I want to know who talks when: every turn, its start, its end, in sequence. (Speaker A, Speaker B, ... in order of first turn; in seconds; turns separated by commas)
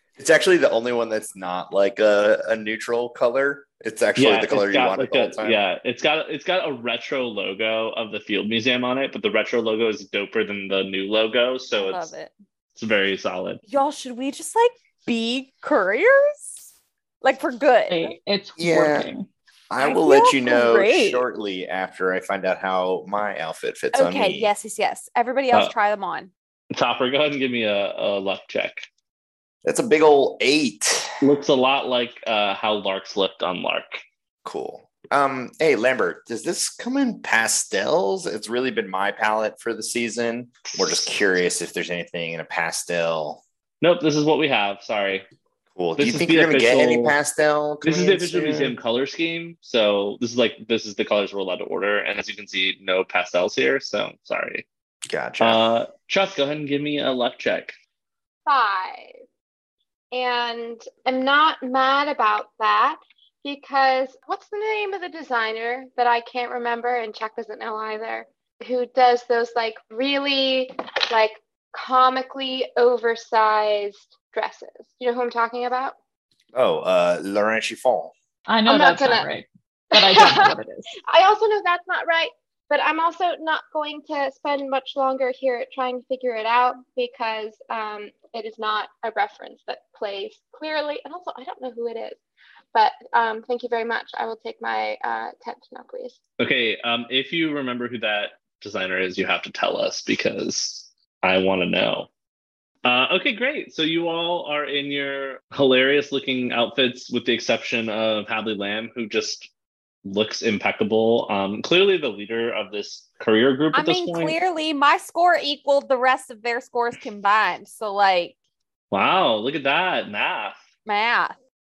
Speaker A: 0.2-5.6, Speaker B: 4.2-12.1, Speaker C: 11.8-12.3, Speaker B: 12.8-13.6, Speaker C: 13.7-16.7, Speaker C: 17.2-18.1, Speaker D: 17.9-19.3, Speaker A: 18.6-19.1, Speaker A: 19.7-24.5, Speaker C: 19.8-21.2, Speaker C: 23.9-26.3, Speaker B: 26.7-28.9, Speaker A: 29.6-31.2, Speaker B: 31.2-34.0, Speaker A: 34.4-43.4, Speaker B: 40.7-41.1, Speaker B: 43.8-45.2, Speaker A: 45.7-48.8, Speaker B: 46.0-47.2, Speaker B: 47.8-54.6, Speaker A: 55.1-55.6, Speaker B: 55.4-57.7, Speaker E: 58.5-59.2, Speaker E: 60.1-76.0, Speaker A: 76.5-78.1, Speaker D: 78.5-80.9, Speaker E: 78.7-79.3, Speaker E: 79.9-80.5, Speaker E: 81.1-92.2, Speaker E: 92.7-96.2, Speaker B: 96.4-102.1, Speaker B: 102.8-109.5, Speaker B: 110.0-114.4, Speaker C: 113.7-118.3, Speaker B: 118.9-120.5, Speaker C: 120.9-121.4